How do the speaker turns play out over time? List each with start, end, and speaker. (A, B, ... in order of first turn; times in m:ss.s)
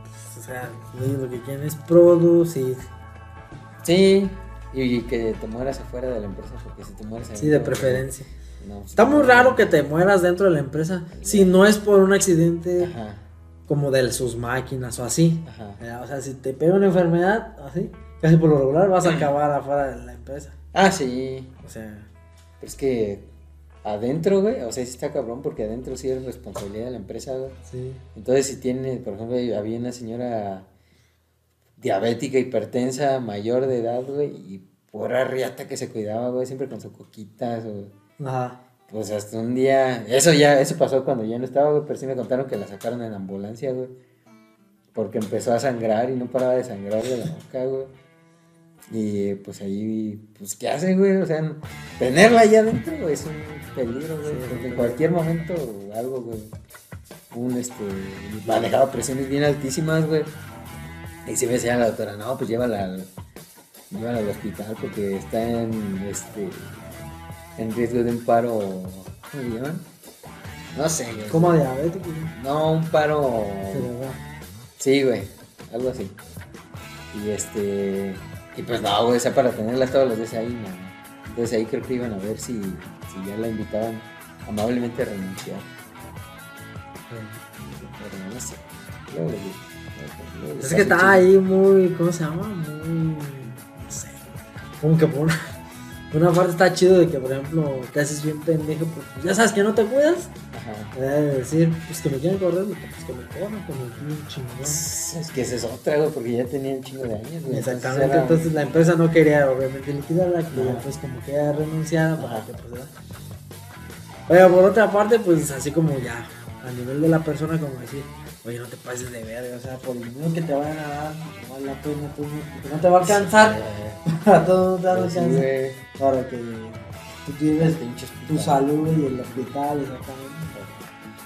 0:00.2-0:02.8 A
0:03.8-0:08.1 B
0:07.3-0:08.3 A
0:08.6-0:09.8 B
0:09.0-0:12.9 A
0:11.2-0:11.6 B
0:12.8-0:13.2 B
0:13.7-0:20.5 A
0:15.4-0:15.8 B
0:19.0-0:19.3 B
0:20.7-0:21.5 B
0:21.6-0:22.1 A
0:22.6-0:23.2 B
0:23.8-0:27.6 B
0:27.7-0:28.0 A
0:28.1-0:30.7 B
0:31.8-0:37.9 B
0:38.2-0:38.6 A
0:38.9-0:43.9 B
0:44.9-0:47.9 B
0:48.9-0:56.5 B
0:54.2-0:55.0 A
0:57.3-1:00.3 B
1:01.2-1:03.1 B
1:03.9-1:06.8 B
1:07.6-1:09.8 B
1:10.7-1:11.6 B
1:11.3-1:12.3 A
1:12.3-1:13.9 B
1:13.7-1:14.2 A
1:14.8-1:16.1 B
1:17.1-1:25.7 B
1:27.1-1:27.4 A
1:27.9-1:31.3 B
1:30.6-1:34.3 A
1:34.8-1:35.4 A
1:36.1-1:40.3 A
1:40.5-1:40.9 B
1:40.9-1:44.8 A
1:44.6-1:48.6 B
1:47.5-1:52.9 A
1:50.5-1:50.8 B
1:52.2-1:52.5 B
1:54.3-2:10.5 A
2:03.0-2:04.0 B
2:04.9-2:05.8 B
2:07.6-2:09.5 B
2:10.5-2:10.8 B